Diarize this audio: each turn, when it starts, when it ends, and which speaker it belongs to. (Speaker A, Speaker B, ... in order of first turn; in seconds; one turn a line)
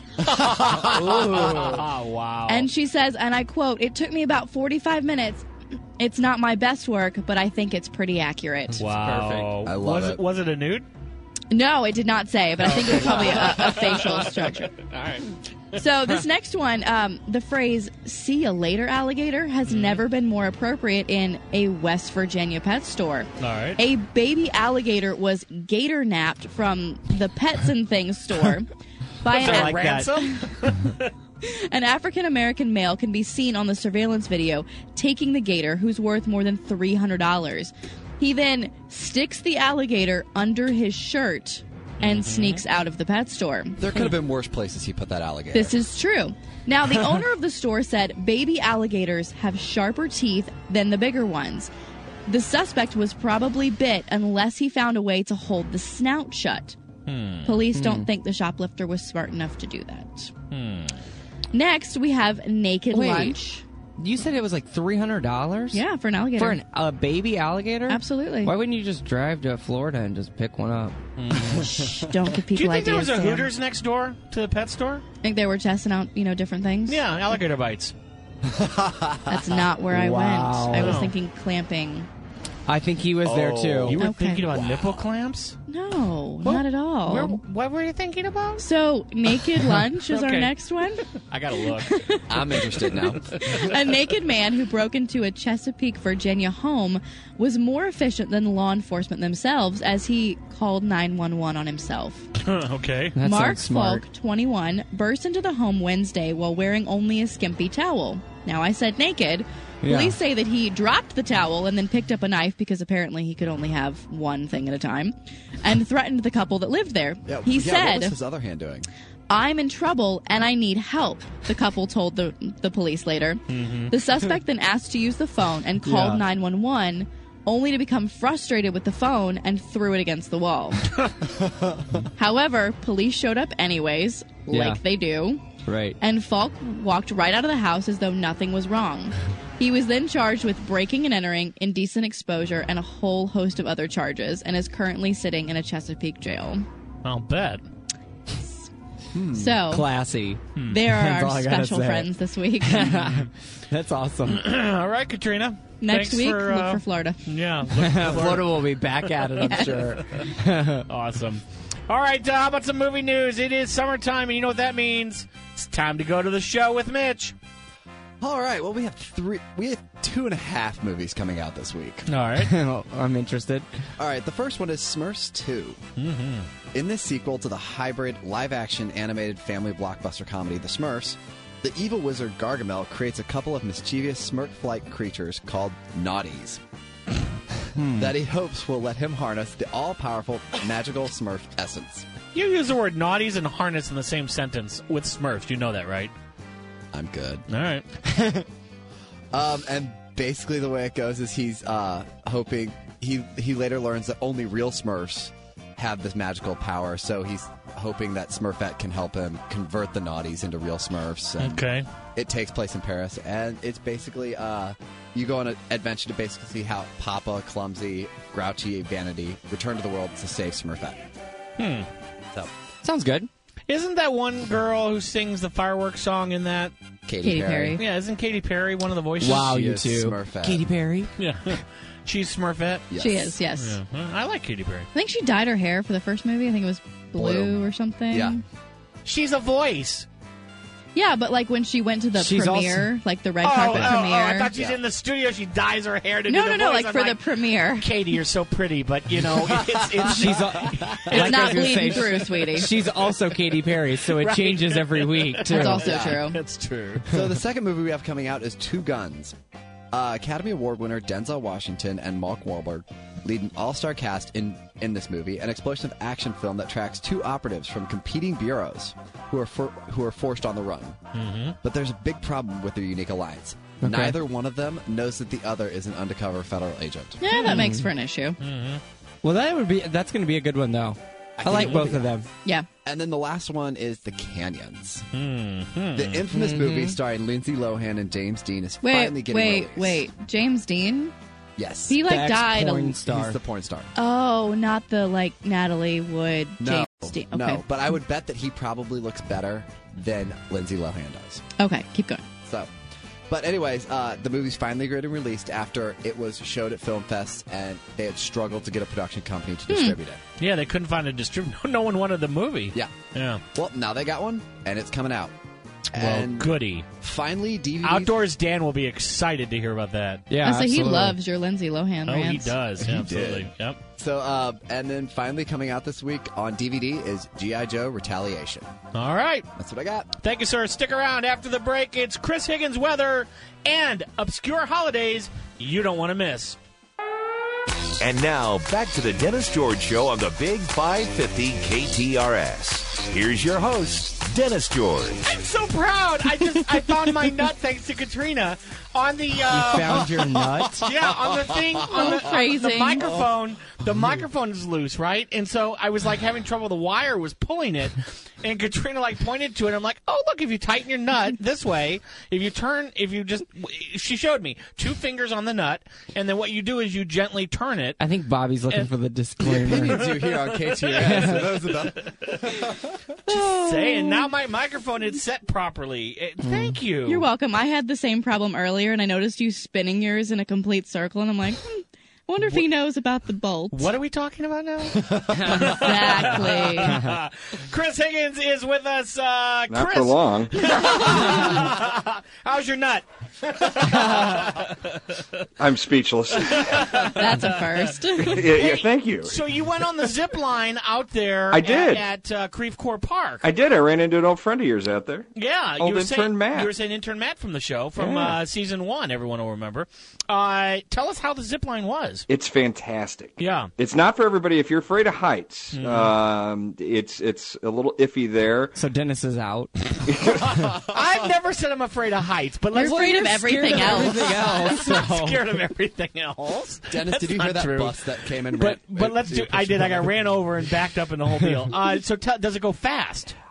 Speaker A: 0.2-2.7
Speaker B: 0.8-1.8
Speaker C: 2.5-5.5
Speaker C: 6.0-8.8
Speaker A: 8.8-10.9
Speaker B: 8.9-9.5
Speaker D: 9.6-10.2
Speaker C: 11.5-14.7
Speaker A: 12.7-15.8
Speaker C: 15.8-28.7
Speaker A: 19.7-20.0
Speaker A: 23.4-23.8
Speaker C: 29.2-30.5
Speaker A: 29.3-31.1
Speaker B: 29.4-30.1
Speaker C: 31.4-43.8
Speaker A: 42.0-42.6
Speaker D: 43.8-45.8
Speaker C: 45.5-51.7
Speaker C: 52.3-56.8
Speaker A: 57.1-57.6
Speaker C: 57.5-60.3
Speaker B: 57.7-58.1
Speaker A: 60.5-61.0
Speaker C: 61.5-63.6
Speaker B: 62.9-63.4
Speaker B: 64.0-65.8
Speaker C: 65.7-66.6
Speaker B: 66.4-71.0
Speaker C: 67.9-68.5
Speaker A: 71.2-71.6
Speaker C: 71.5-73.5
Speaker D: 71.6-71.9
Speaker A: 72.5-75.0
Speaker C: 75.2-77.0
Speaker A: 76.9-77.9
Speaker D: 78.5-79.3
Speaker C: 79.3-82.1
Speaker B: 79.9-81.0
Speaker A: 80.8-81.1
Speaker B: 82.7-84.0
Speaker D: 83.2-84.0
Speaker A: 83.8-85.6
Speaker C: 84.0-84.6
Speaker D: 84.5-85.1
Speaker C: 85.7-87.4
Speaker A: 86.5-88.7
Speaker C: 88.6-91.1
Speaker A: 90.1-90.5
Speaker A: 91.2-92.0
Speaker C: 91.8-102.3
Speaker D: 92.3-93.6
Speaker A: 102.4-103.2
Speaker B: 103.2-104.0
Speaker C: 103.2-118.2
Speaker B: 109.8-110.2
Speaker D: 117.3-118.9
Speaker C: 119.3-131.0
Speaker A: 123.5-123.9
Speaker B: 125.8-126.2
Speaker C: 132.2-135.4
Speaker B: 134.5-134.8
Speaker B: 135.7-136.0
Speaker C: 136.0-146.7
Speaker A: 147.0-147.6
Speaker D: 149.1-149.6
Speaker C: 149.3-149.9
Speaker B: 149.7-152.1
Speaker C: 150.7-153.1
Speaker B: 152.6-154.5
Speaker A: 154.3-160.3
Speaker C: 155.8-157.2
Speaker B: 157.8-160.9
Speaker C: 159.4-160.0
Speaker A: 160.9-167.3
Speaker D: 168.2-172.1
Speaker A: 172.1-172.5
Speaker B: 172.4-173.7
Speaker D: 174.0-175.8
Speaker A: 176.0-176.5
Speaker D: 176.7-186.6
Speaker B: 187.8-188.1
Speaker D: 187.8-192.1
Speaker A: 192.3-196.1
Speaker D: 196.9-197.5
Speaker A: 197.5-197.8
Speaker D: 199.3-221.0
Speaker A: 211.4-211.9
Speaker A: 221.6-221.9
Speaker B: 222.8-223.3
Speaker A: 223.7-226.7
Speaker D: 227.1-227.8
Speaker C: 227.2-227.8
Speaker A: 227.8-229.5
Speaker B: 229.2-231.1
Speaker D: 229.2-230.7
Speaker A: 231.2-232.9
Speaker D: 232.9-233.4
Speaker C: 233.0-233.8
Speaker A: 233.6-234.9
Speaker C: 234.9-238.4
Speaker D: 237.2-238.4
Speaker A: 239.1-240.1
Speaker C: 240.9-244.5
Speaker B: 242.2-242.9
Speaker A: 243.4-257.1
Speaker D: 244.5-244.8
Speaker C: 246.3-247.9
Speaker D: 249.2-250.3
Speaker B: 250.0-256.1
Speaker C: 251.1-252.7
Speaker C: 255.5-256.4
Speaker D: 255.8-256.2
Speaker D: 257.1-259.4
Speaker D: 259.9-271.0
Speaker A: 271.1-271.6
Speaker D: 271.6-277.2
Speaker B: 273.8-274.2
Speaker C: 277.2-278.4
Speaker B: 277.3-277.9
Speaker A: 277.3-277.6
Speaker A: 278.4-278.8
Speaker B: 279.2-282.3
Speaker D: 281.4-282.2
Speaker D: 282.8-285.1
Speaker A: 285.1-286.2
Speaker D: 285.9-290.0
Speaker B: 286.3-287.0
Speaker C: 288.8-291.1
Speaker D: 291.6-292.0
Speaker C: 291.9-293.0
Speaker B: 292.0-293.4
Speaker D: 293.1-293.9
Speaker C: 294.0-297.6
Speaker D: 296.6-301.4
Speaker C: 301.6-302.2
Speaker D: 302.4-302.7
Speaker D: 303.3-310.2
Speaker C: 309.7-310.0
Speaker A: 310.4-313.4
Speaker D: 313.5-315.4
Speaker D: 315.9-318.2
Speaker A: 315.9-316.9
Speaker A: 317.8-320.3
Speaker B: 320.3-321.2
Speaker C: 320.4-322.6
Speaker A: 322.1-323.8
Speaker D: 322.8-328.7
Speaker A: 328.9-329.5
Speaker D: 329.6-330.1
Speaker A: 330.2-336.6
Speaker E: 338.0-345.4
Speaker A: 345.3-350.1
Speaker B: 349.5-350.9
Speaker D: 350.1-352.0
Speaker A: 350.8-368.0
Speaker C: 351.9-353.1
Speaker B: 368.0-370.2
Speaker D: 369.4-373.1
Speaker A: 369.7-372.5
Speaker B: 370.9-371.7
Speaker C: 373.3-374.3
Speaker A: 373.3-377.3
Speaker B: 376.4-376.8
Speaker C: 377.1-383.9
Speaker A: 383.7-394.8
Speaker B: 385.4-385.7
Speaker C: 385.6-387.0
Speaker B: 386.9-387.2
Speaker F: 389.7-391.4
Speaker F: 395.6-397.1
Speaker A: 396.4-403.5
Speaker C: 397.0-398.4
Speaker F: 398.2-399.4
Speaker F: 401.5-402.1
Speaker F: 403.4-406.7
Speaker A: 405.4-412.3
Speaker B: 408.0-408.4
Speaker F: 412.3-418.8
Speaker A: 413.4-413.7
Speaker A: 415.7-416.1
Speaker B: 418.8-420.0
Speaker F: 420.1-420.8
Speaker A: 420.8-433.4
Speaker C: 422.7-424.3
Speaker B: 422.8-425.4
Speaker D: 426.9-430.1